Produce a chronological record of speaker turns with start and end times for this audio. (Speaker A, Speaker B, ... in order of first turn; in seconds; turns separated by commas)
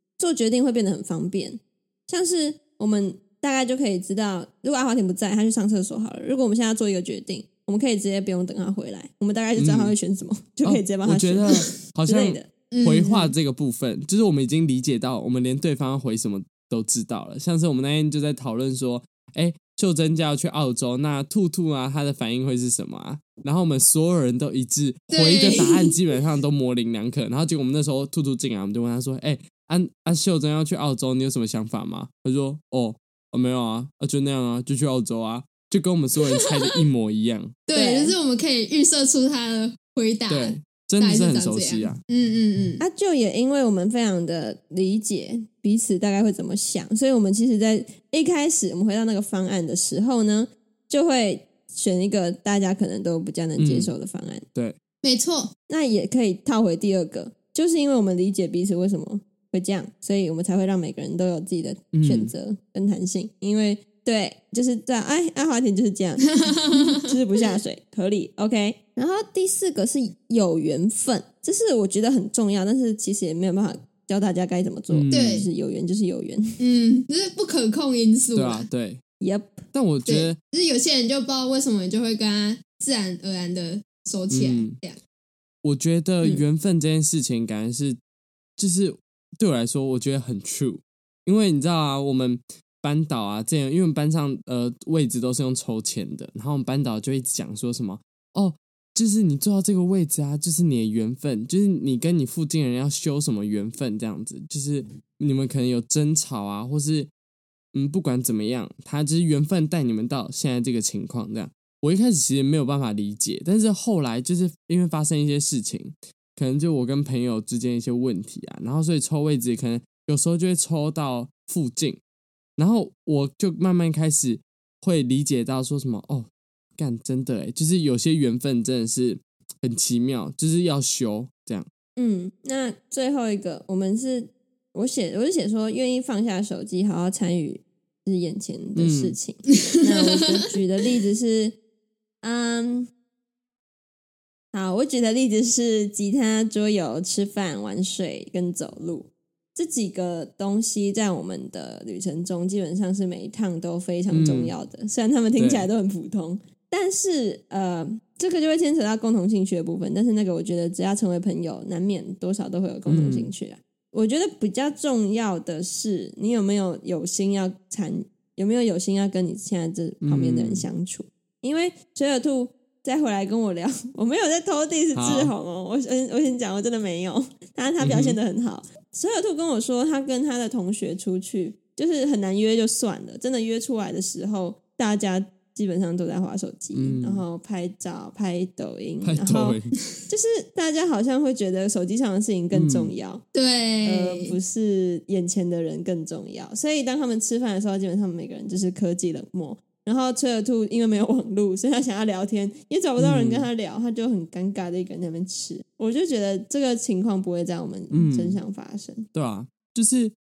Speaker A: 0.2-12.5, Speaker B: 9.6-9.9, Speaker B: 10.6-37.6, Speaker C: 12.7-13.3, Speaker C: 25.1-25.9, Speaker C: 36.3-36.8, Speaker C: 37.7-42.8, Speaker A: 37.7-38.1, Speaker B: 40.3-42.0, Speaker A: 42.8-54.5, Speaker B: 53.6-53.9, Speaker C: 55.0-55.5, Speaker A: 55.7-76.6, Speaker B: 61.9-62.3, Speaker C: 66.3-67.2, Speaker B: 74.9-75.5, Speaker C: 75.1-75.5, Speaker C: 76.6-78.7, Speaker B: 78.3-79.0, Speaker A: 79.2-79.7, Speaker B: 79.7-80.4, Speaker C: 80.0-85.0, Speaker B: 84.3-84.8, Speaker B: 85.6-88.0, Speaker B: 88.6-107.1, Speaker B: 107.7-122.0, Speaker B: 122.6-131.7, Speaker A: 132.0-141.6, Speaker B: 138.8-139.2, Speaker C: 139.7-140.4, Speaker A: 142.2-142.9, Speaker A: 144.5-193.2, Speaker B: 154.1-154.5, Speaker B: 155.4-155.7, Speaker B: 162.9-163.3, Speaker B: 170.0-170.7, Speaker B: 174.9-175.3, Speaker B: 177.8-178.2, Speaker B: 186.7-187.2, Speaker B: 189.0-189.8, Speaker B: 192.5-192.9, Speaker C: 193.3-194.3, Speaker A: 193.8-209.1, Speaker B: 203.0-203.5, Speaker B: 207.9-208.4, Speaker B: 209.1-210.1